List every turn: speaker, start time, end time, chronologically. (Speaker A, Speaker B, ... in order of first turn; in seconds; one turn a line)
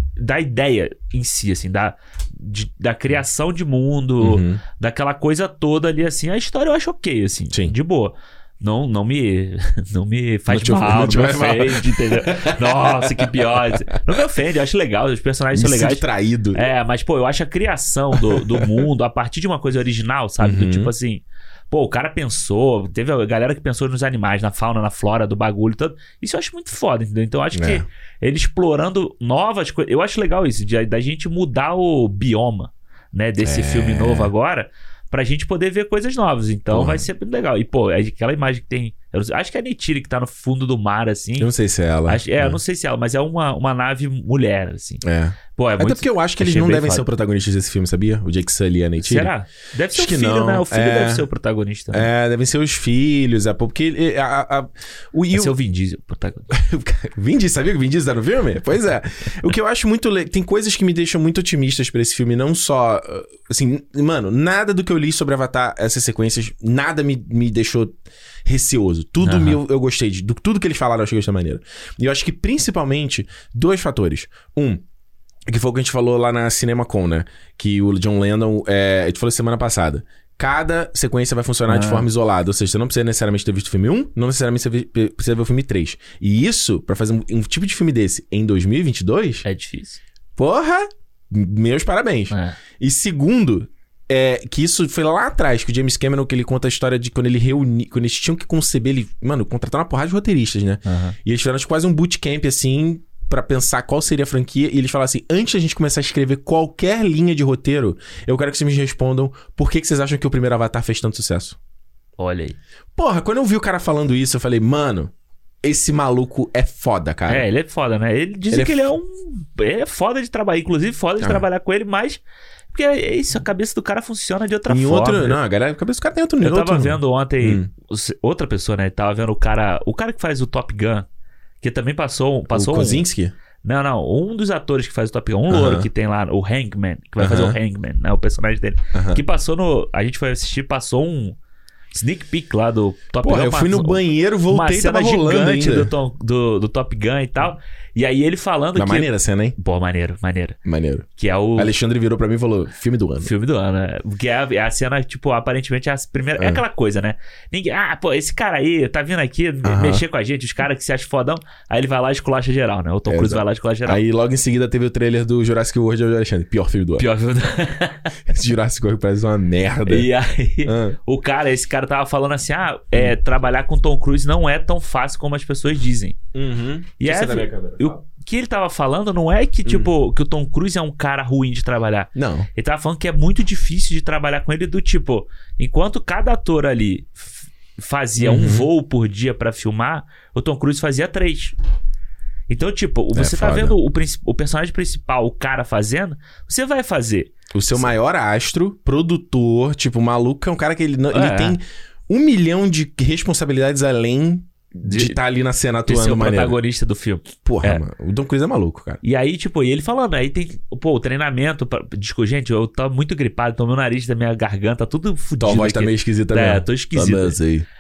Speaker A: 0.2-41.5
Speaker B: 4.2-4.6
Speaker B: 10.5-13.8
Speaker B: 15.5-16.6
Speaker B: 18.1-18.7
Speaker B: 20.4-20.9
Speaker B: 27.5-27.8
Speaker B: 33.4-34.3
Speaker B: 36.7-37.0
Speaker B: 41.4-42.6
Speaker A: 42.1-45.0
Speaker B: 45.0-49.3
Speaker A: 45.5-47.0
Speaker A: 49.0-52.1
Speaker B: 49.9-51.2
Speaker B: 51.9-55.5
Speaker A: 55.3-56.5
Speaker B: 56.5-74.8
Speaker A: 69.2-69.6
Speaker B: 75.5-89.4
Speaker A: 81.7-82.1
Speaker A: 89.4-90.0
Speaker B: 90.3-111.6
Speaker A: 92.3-92.6
Speaker A: 100.8-101.2
Speaker A: 112.2-112.6
Speaker B: 113.0-115.1
Speaker B: 115.6-117.5
Speaker A: 117.3-122.2
Speaker A: 122.7-125.4
Speaker B: 124.7-127.7
Speaker A: 126.4-131.1
Speaker A: 131.6-133.1
Speaker B: 132.5-133.3
Speaker A: 133.6-141.4
Speaker B: 135.5-135.9
Speaker B: 137.2-137.6
Speaker B: 138.9-139.2
Speaker A: 141.9-150.6
Speaker B: 143.2-145.9
Speaker B: 148.8-149.6
Speaker B: 150.7-153.3
Speaker A: 151.2-151.7
Speaker A: 153.2-164.0
Speaker B: 156.4-156.6
Speaker B: 159.6-160.0
Speaker B: 163.1-167.1
Speaker A: 167.0-168.2
Speaker B: 168.2-170.1
Speaker A: 169.9-176.2
Speaker B: 170.6-171.0
Speaker B: 176.3-178.0
Speaker A: 177.0-191.5
Speaker B: 179.6-179.9
Speaker B: 182.1-182.5
Speaker B: 188.2-188.7
Speaker A: 192.5-197.9
Speaker B: 193.2-193.8
Speaker B: 197.5-206.6
Speaker A: 201.1-201.6
Speaker A: 204.8-205.2
Speaker A: 205.8-207.8
Speaker B: 207.4-209.0
Speaker A: 209.0-217.4
Speaker B: 215.4-217.7